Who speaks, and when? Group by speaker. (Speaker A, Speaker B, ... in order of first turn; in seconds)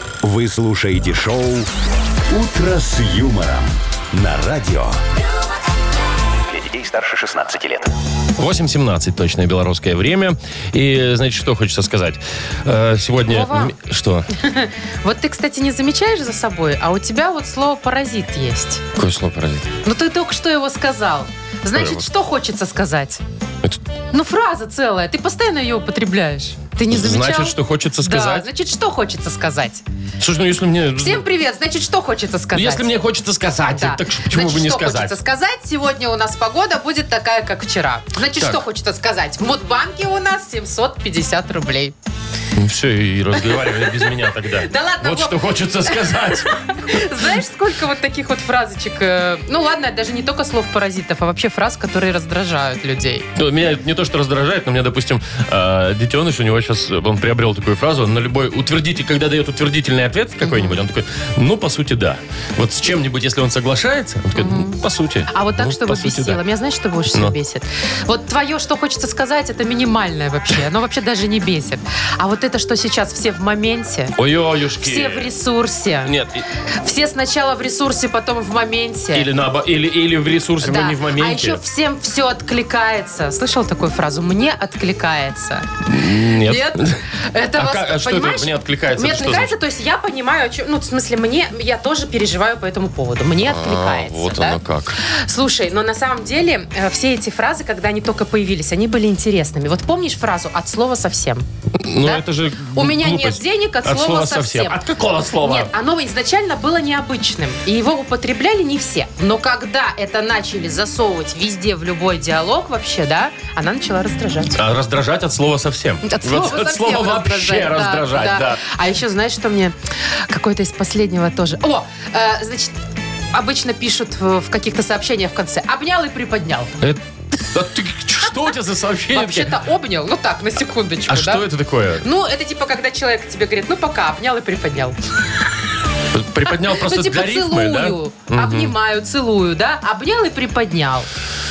Speaker A: 0.2-1.7, 2.3-5.0, 6.5-7.9
Speaker B: 8.4-14.3, 19.0-19.7, 21.8-22.0, 26.9-28.5, 30.2-31.2, 32.5-35.2, 38.3-38.6, 42.6-47.0, 53.4-66.4, 74.2-75.3, 76.0-76.5, 79.1-81.6, 85.9-89.5, 93.4-95.0, 101.8-105.7, 114.5-118.6, 127.5-129.6, 131.1-132.1, 136.1-138.8
Speaker C: 13.3-13.8, 14.3-18.8, 19.8-23.2, 24.1-29.8, 31.0-32.9, 33.7-42.0, 43.5-53.3, 60.4-60.8, 64.4-64.8, 65.3-74.2, 74.8-76.1, 76.8-79.3, 80.6-85.7, 86.4-101.5, 102.0-104.8, 105.4-114.6, 116.0-122.8, 123.3-126.8, 129.1-131.5, 132.0-135.0, 136.5-141.1